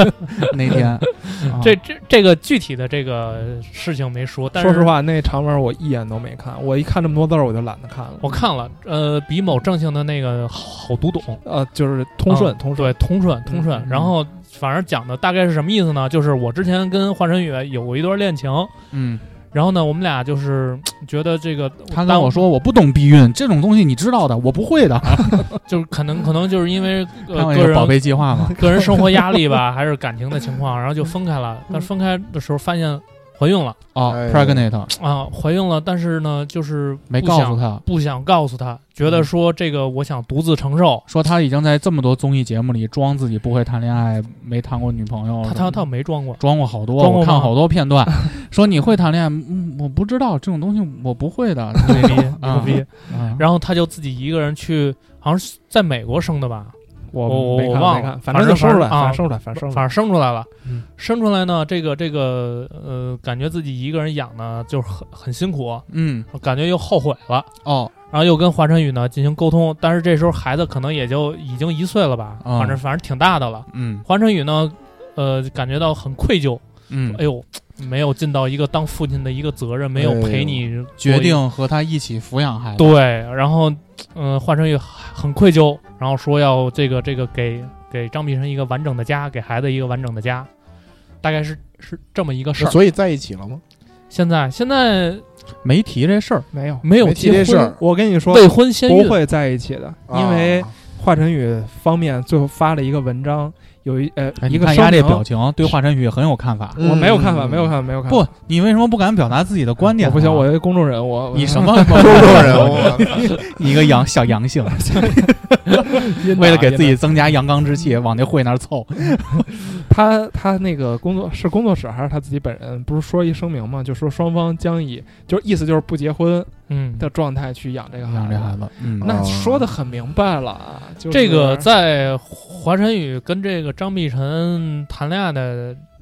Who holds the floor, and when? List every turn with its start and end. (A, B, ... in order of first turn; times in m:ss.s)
0:00.4-0:01.8 A
0:01.1-0:04.9 B
0:04.6-0:08.4 C
0:08.2-0:11.4 B
0:11.4-0:13.9 C
0:12.3-0:18.8 B
0:18.9-0:19.3 A
0:19.5-0:22.5 B
0:21.9-0:25.6 A
0:25.7-0:33.8 B
0:27.3-0:28.8 A
0:33.9-0:34.9 A
0:34.1-0:34.7 D
0:34.9-0:41.1 B
0:37.1-0:37.8 A
0:41.1-0:53.4 A
0:45.4-0:47.5 B
0:51.8-1:07.5 B
0:57.1-0:59.9 C
1:05.9-1:06.3 A
1:07.6-1:07.9 A
1:08.1-1:21.4 B
1:12.4-1:12.8 A
1:13.7-1:14.1 A
1:16.9-1:17.2 A
1:20.0-1:20.6 D
1:21.0-1:22.9 A
1:22.8-1:30.5 B
1:31.2-1:32.8 B
1:32.6-1:33.6 D
1:34.1-1:35.2 B
1:35.6-1:36.5 A
1:36.5-1:36.8 C
1:36.8-1:39.2 B
1:37.0-1:37.8 D
1:37.8-1:45.7 C
1:40.1-1:40.7 D
1:44.4-1:46.8 A
1:46.8-1:47.7 D
1:46.8-1:48.3 C
1:48.1-1:50.5 A
1:50.0-1:53.4 C
1:51.3-1:55.0 A
1:51.9-1:53.4 D
1:54.7-1:57.0 C
1:56.0-1:59.8 A
1:59.8-2:11.7 C
2:06.7-2:07.1 B
2:08.0-2:09.2 A
2:09.0-2:09.6 D
2:11.1-2:15.9 B